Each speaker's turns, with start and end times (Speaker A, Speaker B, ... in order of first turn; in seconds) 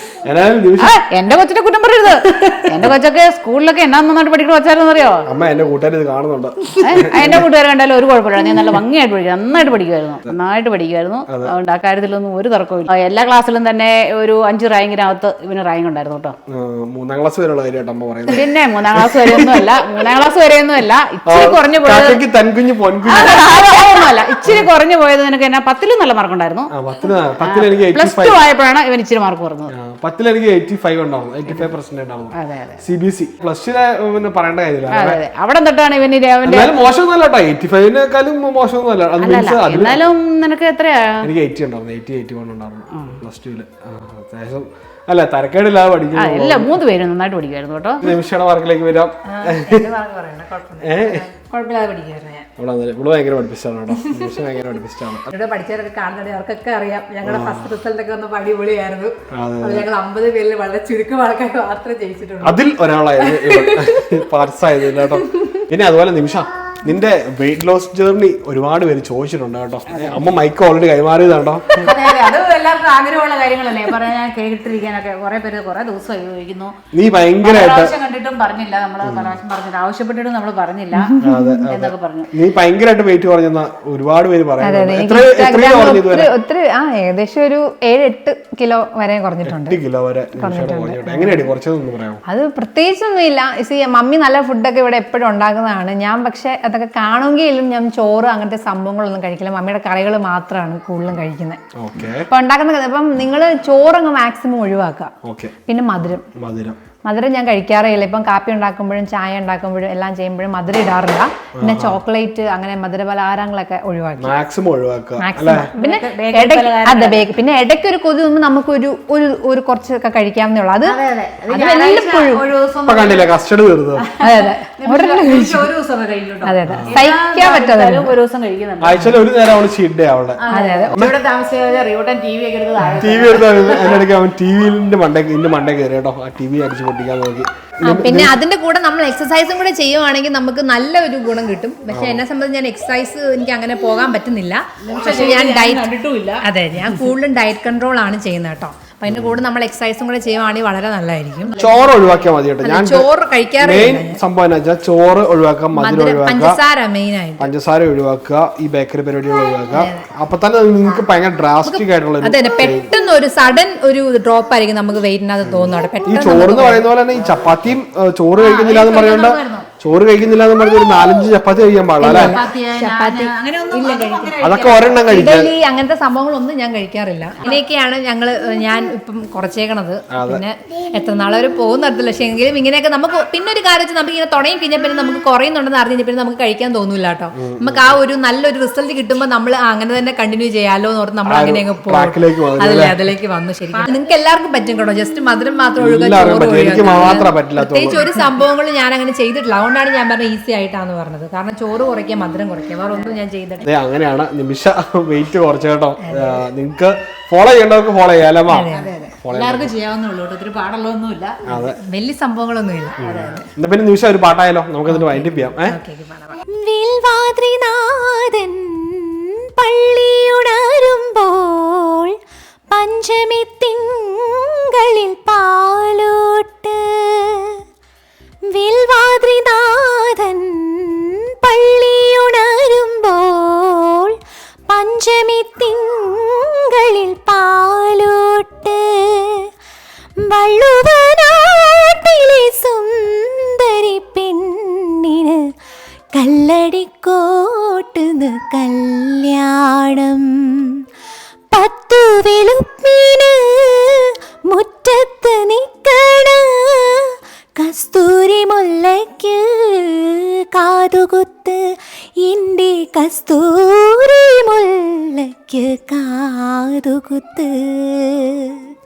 Speaker A: 0.2-0.9, 2.5-3.0, 5.3-7.5, 11.3-11.5, 16.5-20.0, 21.2-24.7, 26.7-28.4, 29.7-35.2, 36.4-40.0, 41.2-46.8, 48.0-49.9, 50.8-51.2, 52.6-55.3, 57.2-57.7, 59.3-59.9, 62.4-71.9, 76.9-77.9, 79.0-79.4, 81.2-86.3, 89.4-92.2, 101.8-102.3, 105.2-105.5, 106.3-106.8, 111.6-112.0, 114.2-115.7, 122.9-124.0, 126.7-127.0, 128.8-130.4, 133.0-138.3, 141.9-142.2, 149.1-149.4, 151.5-153.1, 153.6-156.6, 157.4-162.9, 165.4-172.4, 174.4-175.5, 180.1-180.4, 187.4-188.0, 191.3-193.0, 195.8-198.1, 203.6-208.7, 209.2-209.7, 211.5-211.8, 213.0-215.8
Speaker B: 0.8-5.2, 6.8-16.4, 18.3-22.2, 23.1-26.7, 27.4-29.7, 32.4-32.8, 34.9-36.7, 39.2-41.3, 43.0-43.2, 46.1-48.1, 69.9-70.2, 71.8-76.8, 77.4-82.3, 115.7-117.3, 120.8-123.3, 124.0-129.2, 130.4-134.0, 144.8-147.0, 168.4-169.7, 172.0-175.2, 208.7-211.4, 213.0-213.4
Speaker C: 49.3-52.5, 54.0-54.4, 55.3-62.6, 63.2-64.2, 65.0-65.6, 81.0-81.6, 84.6-89.8, 90.4-91.5, 92.3-101.6, 102.3-105.1, 105.7-106.3, 107.0-114.3, 115.2-122.4, 124.2-125.7, 126.4-128.1, 130.5-130.9, 137.9-145.9, 146.4-152.0, 152.6-154.2, 155.7-157.5, 159.7-160.1, 161.6-166.9, 172.0-174.4, 174.9-203.7, 206.0-206.4, 208.5-208.9, 211.5-213.5, 214.9-216.4
Speaker D: 216.5-222.2, 222.7-227.6, 228.5-234.2, 234.7-239.5, 240.2-245.5, 246.1-250.8, 251.5-268.7